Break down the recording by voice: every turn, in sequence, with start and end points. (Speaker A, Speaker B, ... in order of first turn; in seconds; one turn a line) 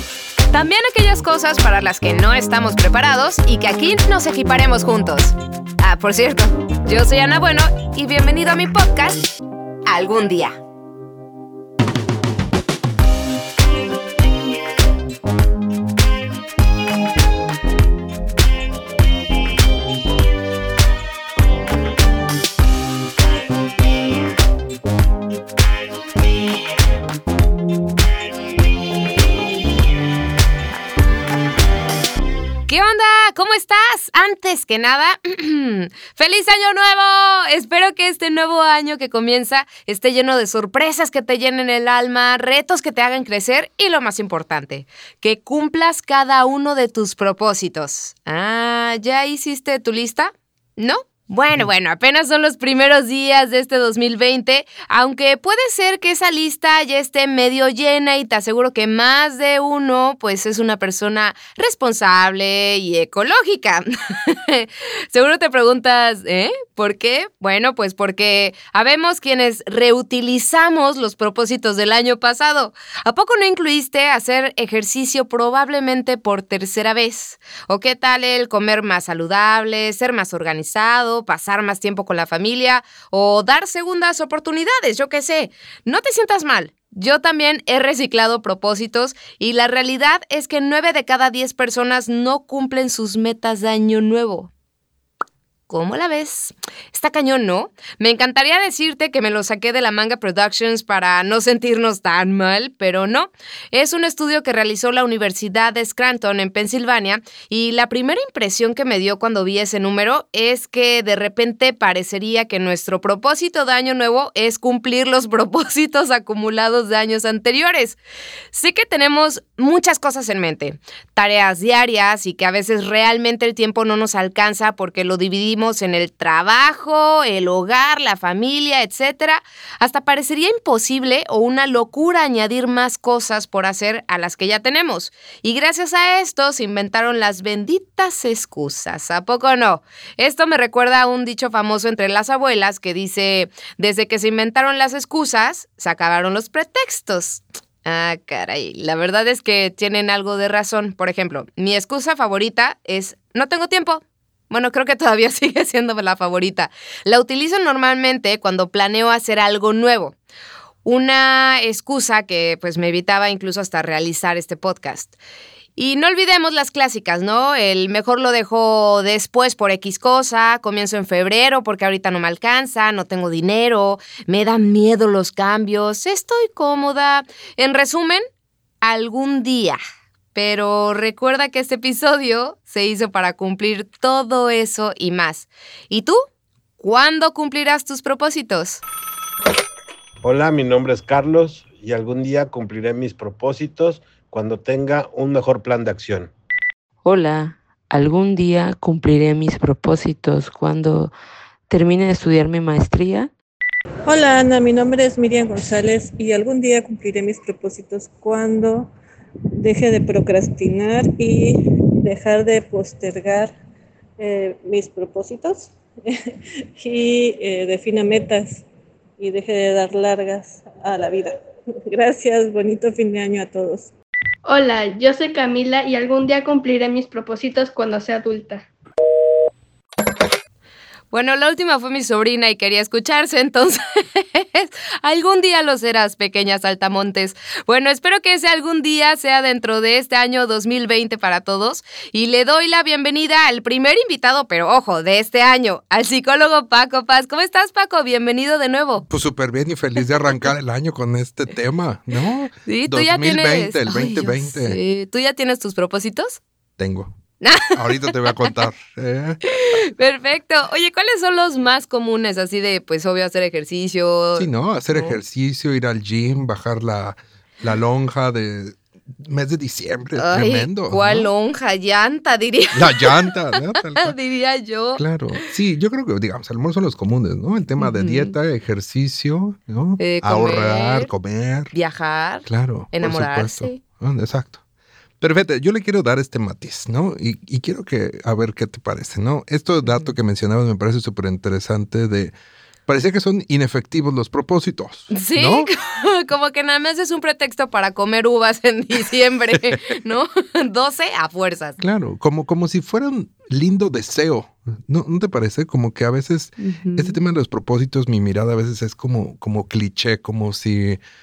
Speaker A: 0.5-9.2
Speaker A: 9.9-10.6
Speaker A: 32.7-94.5
Speaker A: 95.7-118.0
Speaker A: 118.5-160.2
Speaker A: 160.8-165.1
Speaker A: 165.8-178.2
Speaker A: 178.8-179.8
Speaker A: 180.3-186.2
Speaker A: 186.8-188.8
Speaker B: 190.2-196.3
Speaker C: 197.0-201.1
Speaker C: 201.7-203.3
Speaker D: 204.1-208.9
Speaker D: 209.6-213.5
Speaker D: 214.2-216.2
Speaker D: 216.8-218.6
Speaker D: 219.2-221.3
Speaker D: 221.9-223.9
Speaker E: 224.4-228.7
Speaker A: 231.1-249.1
Speaker F: 249.1-254.8
Speaker A: 252.7-256.4
Speaker F: 256.8-257.1
Speaker A: 257.4-258.5
Speaker F: 257.7-259.8
Speaker A: 259.5-265.2
Speaker F: 264.3-271.3
Speaker A: 270.1-275.5
Speaker F: 272.7-274.1
Speaker F: 274.9-281.7
Speaker A: 277.8-278.3
Speaker A: 280.0-281.1
Speaker A: 281.7-283.8
Speaker F: 282.4-284.6
Speaker F: 285.2-292.3
Speaker A: 289.9-290.1
Speaker F: 292.9-295.7
Speaker A: 295.1-301.8
Speaker F: 299.5-299.8
Speaker F: 301.8-311.0
Speaker A: 306.6-307.2